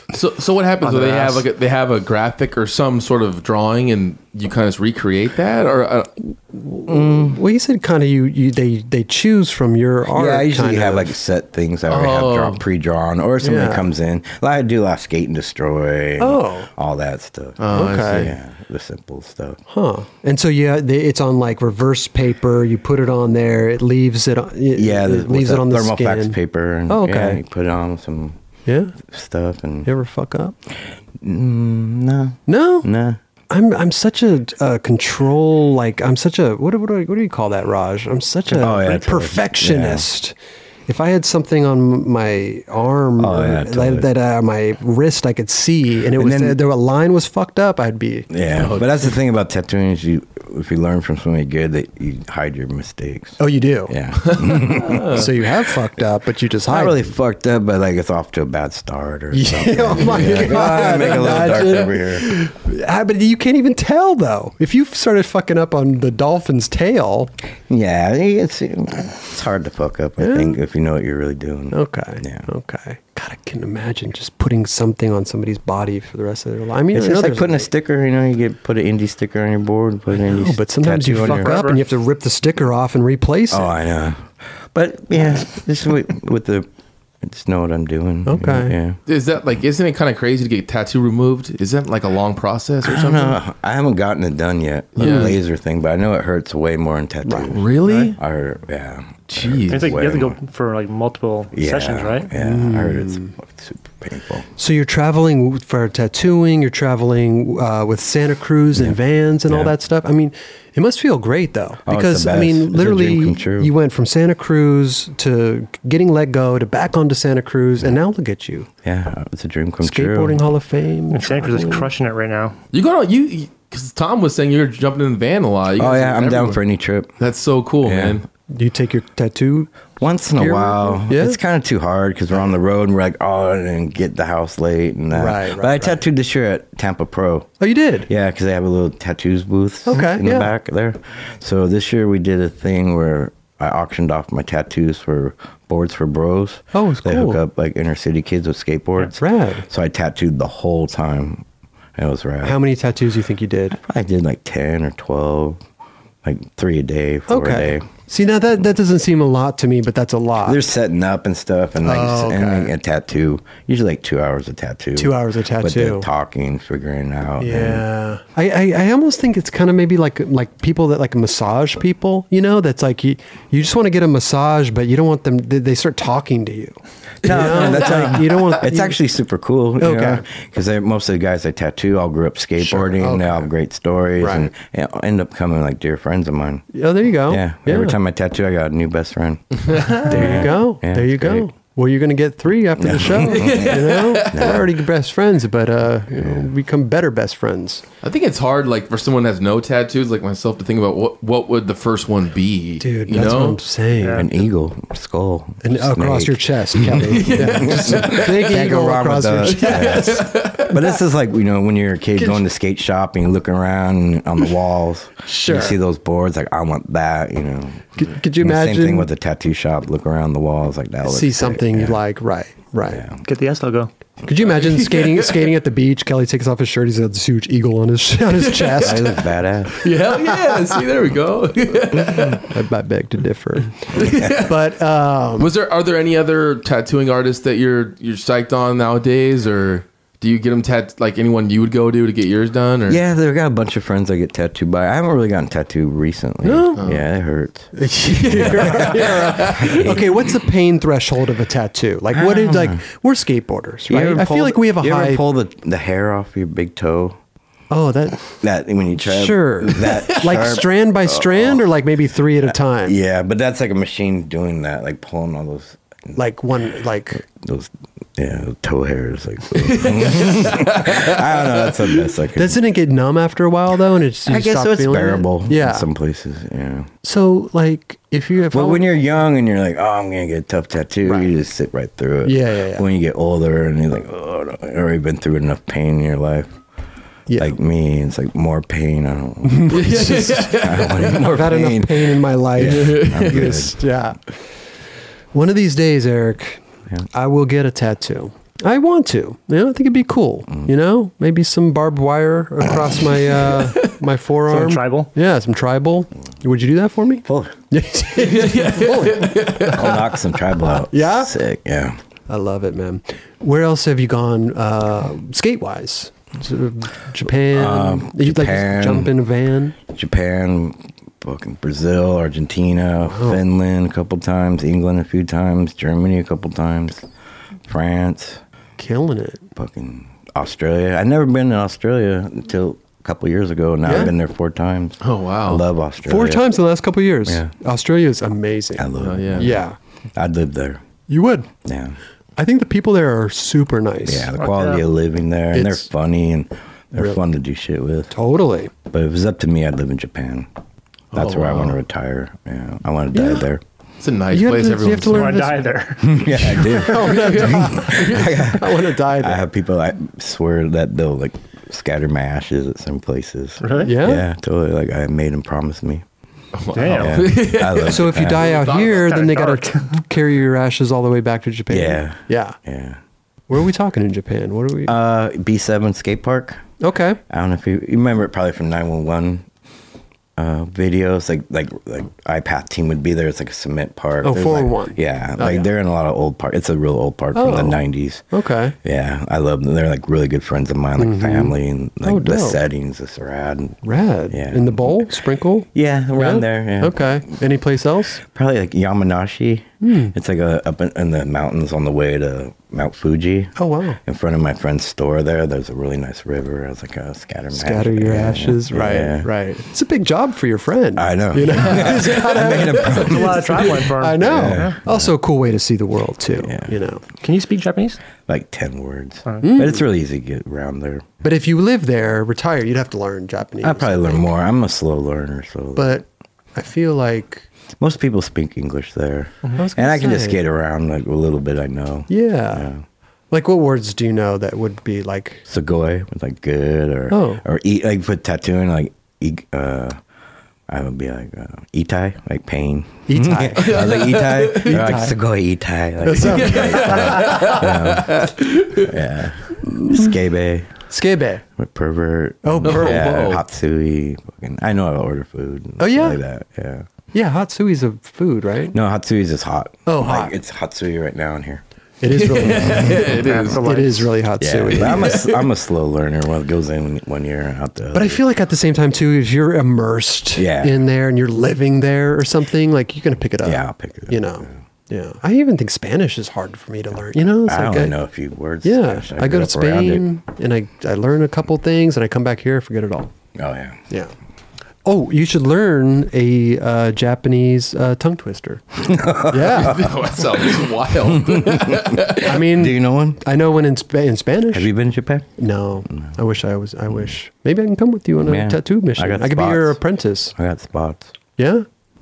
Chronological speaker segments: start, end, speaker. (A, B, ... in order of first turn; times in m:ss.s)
0:00.1-0:06.2 A
0:00.9-0:01.4 B
0:06.5-0:11.1 C
0:06.9-0:07.4 D
0:10.1-0:19.6 D
0:11.9-0:12.6 A
0:13.4-0:13.9 C
0:16.2-0:16.7 C
0:17.6-0:18.4 A
0:17.7-0:18.3 C
0:19.7-0:26.4 C
0:24.7-0:28.4 D
0:26.9-0:27.4 C
0:28.6-0:29.0 C
0:29.0-0:29.9 D
0:29.8-0:30.5 C
0:31.2-0:33.2 D
0:32.5-0:32.9 C
0:33.5-0:40.3 C
0:38.5-0:40.1 D
0:40.9-0:48.3 C
0:43.2-0:44.1 D
0:46.1-0:46.6 D
0:48.3-0:55.5 D
0:48.6-0:49.1 A
0:53.4-0:57.1 C
0:54.2-0:55.3 A
0:56.6-1:02.3 D
0:59.3-1:07.3 C
1:00.1-1:01.6 A
1:07.7-1:12.5 D
1:10.2-1:10.6 C
1:11.7-1:17.7 C
1:16.9-1:21.6 D
1:20.1-1:23.7 C
1:21.2-1:21.8 B
1:23.5-1:26.7 D
1:27.2-1:29.0 D
1:28.2-1:28.8 C
1:29.0-1:33.4 A
1:32.8-1:40.4 D
1:35.0-1:35.4 A
1:37.2-1:38.1 C
1:37.5-1:38.2 A
1:39.3-1:40.0 A
1:39.7-1:42.3 B
1:41.5-1:44.5 D
1:42.3-1:43.3 C
1:44.6-1:58.7 C
1:48.7-1:49.7 D
1:51.8-1:53.7 D
1:58.8-2:00.4 D
1:59.8-2:01.9 C
2:01.1-2:02.6 B
2:02.7-2:06.6 A
2:05.8-2:07.2 D
2:07.2-2:08.2 A
2:07.8-2:08.2 D
2:08.5-2:09.7 C
2:10.0-2:17.5 D
2:10.3-2:11.4 C
2:15.1-2:16.0 C
2:17.6-2:18.1 C
2:18.1-2:31.4 D
2:19.9-2:20.5 C
2:26.7-2:27.4 C
2:29.1-2:29.6 C
2:32.0-2:32.6 D
2:32.4-2:33.8 C
2:33.7-2:35.6 D
2:36.2-2:37.9 D
2:37.3-2:40.6 C
2:40.4-2:47.8 D
2:41.8-2:42.7 C
2:45.0-2:46.1 C
2:47.4-2:59.0 C
2:57.2-3:06.6 D
2:57.2-2:58.4 A
2:59.8-3:00.2 C
3:02.6-3:03.5 C
3:04.2-3:04.5 C
3:06.7-3:08.0 C
3:07.3-3:11.5 D
3:09.7-3:10.5 A
3:10.0-3:17.8 C
3:12.8-3:14.7 D
3:13.2-3:14.7 A
3:16.2-3:16.4 D
3:18.0-3:23.6 A
3:22.8-3:24.3 C
3:24.0-3:24.3 B
3:24.0-3:42.0 D
3:25.6-3:30.3 C
3:27.0-3:28.7 A
3:29.4-3:30.8 A
3:32.2-3:32.4 C
3:35.2-3:35.8 C
3:38.0-3:39.1 C
3:41.0-3:43.1 C
3:42.9-3:43.2 D
3:43.2-3:43.9 B
3:44.2-3:49.2 C
3:44.4-3:45.5 A
3:48.3-3:49.0 A
3:48.8-3:49.8 D
3:49.8-3:52.5 A
3:52.4-3:55.5 C
3:53.9-3:54.6 A
3:54.0-3:54.4 D
3:55.4-4:03.0 A
4:02.9-4:07.7 D
4:06.4-4:06.8 C
4:06.8-4:07.0 A
4:07.7-4:15.2 C
4:08.1-4:09.9 A
4:08.3-4:10.3 D
4:12.1-4:12.8 D
4:13.9-4:17.2 D
4:17.7-4:18.4 C
4:18.4-4:21.6 D
4:19.0-4:23.0 C
4:19.8-4:20.5 A
4:22.8-4:26.2 D
4:26.1-4:27.2 C
4:27.2-4:32.6 D
4:29.5-4:32.1 A
4:32.3-4:35.9 C
4:34.2-4:36.9 D
4:37.0-4:38.9 C
4:38.5-4:46.6 D
4:41.0-4:41.3 C
4:42.2-4:42.9 C
4:47.3-4:47.6 C
4:47.4-4:53.8 D
4:49.4-4:54.3 C
4:49.7-4:51.2 A
4:52.6-4:53.6 A
4:55.3-5:11.3 C
5:03.2-5:03.9 A
5:04.5-5:05.1 B
5:07.2-5:07.6 D
5:08.2-5:10.0 A
5:09.7-5:12.0 D
5:12.3-5:19.8 C
5:17.5-5:19.1 D
5:19.9-5:27.1 D
5:23.0-5:23.4 C
5:27.7-5:28.4 D
5:28.8-5:29.5 C
5:29.6-5:36.5 D
5:33.8-5:34.1 C
5:35.0-5:35.6 A
5:36.0-5:39.8 C
5:37.2-5:37.5 D
5:38.8-5:39.6 D
5:39.0-5:39.6 A
5:40.2-5:40.8 D
5:41.1-5:41.5 C
5:41.6-5:42.0 D
5:42.4-5:44.3 C
5:44.0-5:48.1 D
5:44.4-5:44.8 B
5:45.5-5:45.9 C
5:46.9-5:47.2 C
5:48.1-5:48.7 C
5:48.9-5:50.5 D
5:51.1-5:51.8 A
5:51.1-5:53.6 D
5:53.1-5:53.5 C
5:54.0-5:55.4 A
5:54.3-5:55.7 C
5:55.1-5:57.1 B
5:56.0-6:06.0 D
5:56.4-5:59.4 C
5:57.0-5:58.5 A
6:03.6-6:03.9 B
6:03.8-6:04.2 C
6:06.5-6:09.5 A
6:06.7-6:07.3 B
6:06.9-6:08.6 D
6:07.8-6:12.6 C
6:08.8-6:10.0 B
6:11.7-6:13.0 D
6:13.5-6:14.9 C
6:14.8-6:16.6 D
6:16.8-6:17.2 C
6:17.3-6:19.4 D
6:20.4-6:28.2 D
6:24.2-6:25.7 C
6:27.3-6:28.8 C
6:28.8-6:35.1 D
6:31.0-6:32.6 C
6:33.8-6:38.2 C
6:35.7-6:37.2 D
6:38.2-6:43.5 D
6:39.8-6:40.1 C
6:43.6-6:44.0 C
6:44.0-6:49.3 D
6:47.5-6:57.0 C
6:51.0-6:55.1 D
6:52.8-6:54.8 B
6:56.4-6:56.7 D
6:57.2-6:58.0 B
6:58.3-7:01.1 D
6:59.4-6:59.8 C
7:01.2-7:04.3 C
7:03.6-7:05.9 D
7:05.7-7:07.4 C
7:07.8-7:12.8 D
7:09.6-7:10.4 C
7:12.1-7:12.7 C
7:13.3-7:15.4 C
7:15.4-7:20.0 D
7:17.1-7:17.4 C
7:20.7-7:30.7 D
7:23.1-7:23.9 C
7:23.6-7:24.9 A
7:24.6-7:25.2 C
7:26.0-7:27.6 C
7:26.2-7:28.9 A
7:29.7-7:30.1 C
7:30.9-7:31.4 C
7:31.6-7:36.9 D
7:32.4-7:33.3 C
7:32.6-7:33.4 A
7:35.8-7:36.2 C
7:37.1-7:38.8 C
7:38.7-7:41.6 D
7:39.8-7:40.3 C
7:42.0-7:45.2 C
7:42.1-7:43.7 A
7:43.0-7:44.1 B
7:44.4-7:48.2 D
7:44.7-7:45.4 A
7:47.9-7:57.9 C
7:50.4-7:50.8 D
7:53.4-7:54.5 D
7:57.4-8:00.0 D
7:58.6-8:03.1 C
8:03.4-8:03.8 D
8:04.8-8:09.9 C
8:08.8-8:13.2 D
8:09.5-8:12.4 A
8:12.2-8:14.7 C
8:14.5-8:15.3 D
8:15.4-8:20.3 C
8:18.2-8:19.8 D
8:20.3-8:21.1 D
8:21.4-8:21.6 C